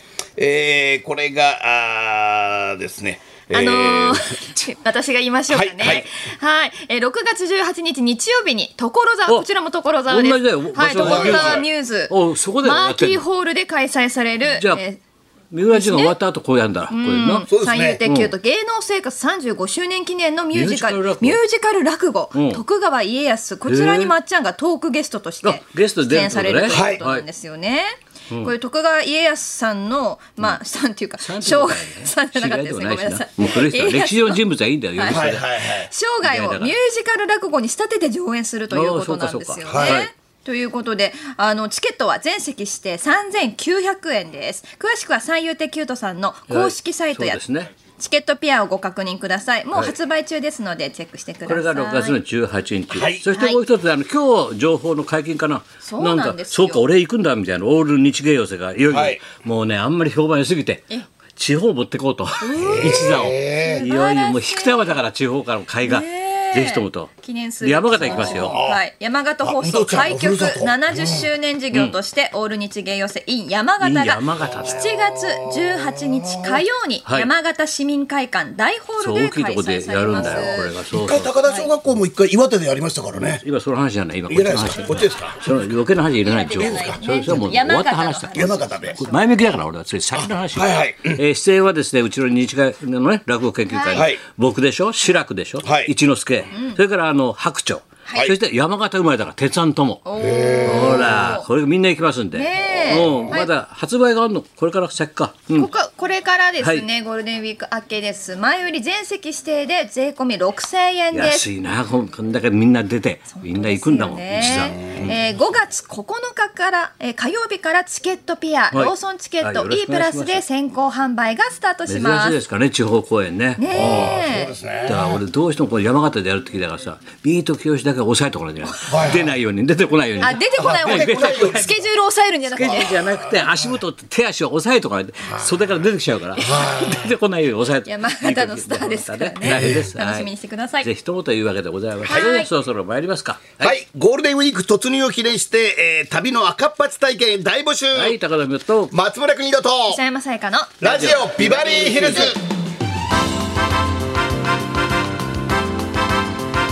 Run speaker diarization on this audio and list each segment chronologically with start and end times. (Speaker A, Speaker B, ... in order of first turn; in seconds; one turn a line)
Speaker A: 0.4-4.3
Speaker B: 3.5-15.0
Speaker A: 5.5-6.1
Speaker C: 10.1-13.2
Speaker A: 11.0-11.7
Speaker C: 14.4-14.8
Speaker C: 15.5-17.5
Speaker B: 15.7-16.2
Speaker B: 16.9-34.4
Speaker A: 17.5-18.0
Speaker C: 18.1-18.3
Speaker C: 20.5-21.4
Speaker C: 22.3-22.6
Speaker C: 23.7-24.1
Speaker C: 25.4-27.2
Speaker A: 26.7-27.0
Speaker C: 31.2-35.5
Speaker B: 35.0-47.4
Speaker A: 35.1-35.9
Speaker C: 36.2-36.8
Speaker C: 38.7-40.1
Speaker A: 39.6-40.1
Speaker C: 46.5-47.7
Speaker B: 48.0-52.2
Speaker C: 51.5-68.6
Speaker A: 52.9-53.3
Speaker B: 53.3-53.6
Speaker B: 55.8-56.9
Speaker A: 58.9-59.2
Speaker B: 62.4-65.0
Speaker A: 62.6-63.9
Speaker B: 65.8-80.8
Speaker A: 68.0-68.8
Speaker A: 69.4-71.3
Speaker C: 73.8-74.9
Speaker A: 74.4-76.6
Speaker C: 77.0-77.3
Speaker C: 79.0-81.3
Speaker A: 80.2-83.4
Speaker B: 81.4-81.7
Speaker C: 83.1-100.0
Speaker A: 84.3-85.4
Speaker B: 86.2-89.4
Speaker A: 86.5-87.5
Speaker A: 88.3-89.0
Speaker A: 90.2-91.2
Speaker B: 93.7-94.1
Speaker A: 93.9-94.2
Speaker A: 95.6-95.9
Speaker B: 96.5-96.8
Speaker B: 100.0-101.5
Speaker A: 100.2-101.2
Speaker C: 100.6-105.7
Speaker B: 102.3-103.5
Speaker B: 105.5-111.5
Speaker C: 106.6-106.9
Speaker C: 111.1-115.2
Speaker B: 113.3-122.4
Speaker A: 114.4-115.1
Speaker C: 118.7-120.4
Speaker C: 121.9-124.1
Speaker B: 123.6-124.5
Speaker A: 123.7-125.2
Speaker C: 124.9-131.7
Speaker A: 128.9-129.4
Speaker B: 130.2-133.3
Speaker A: 130.6-131.8
Speaker C: 132.5-143.8
Speaker A: 132.6-133.8
Speaker A: 135.2-135.8
Speaker A: 136.4-137.1
Speaker B: 136.4-136.9
Speaker B: 137.8-140.9
Speaker A: 139.4-139.9
Speaker B: 142.0-142.5
Speaker A: 142.1-142.3
Speaker A: 143.6-148.2
Speaker C: 147.9-148.9
Speaker A: 148.9-150.0
Speaker B: 149.9-150.8
Speaker A: 150.8-152.4
Speaker C: 150.8-152.4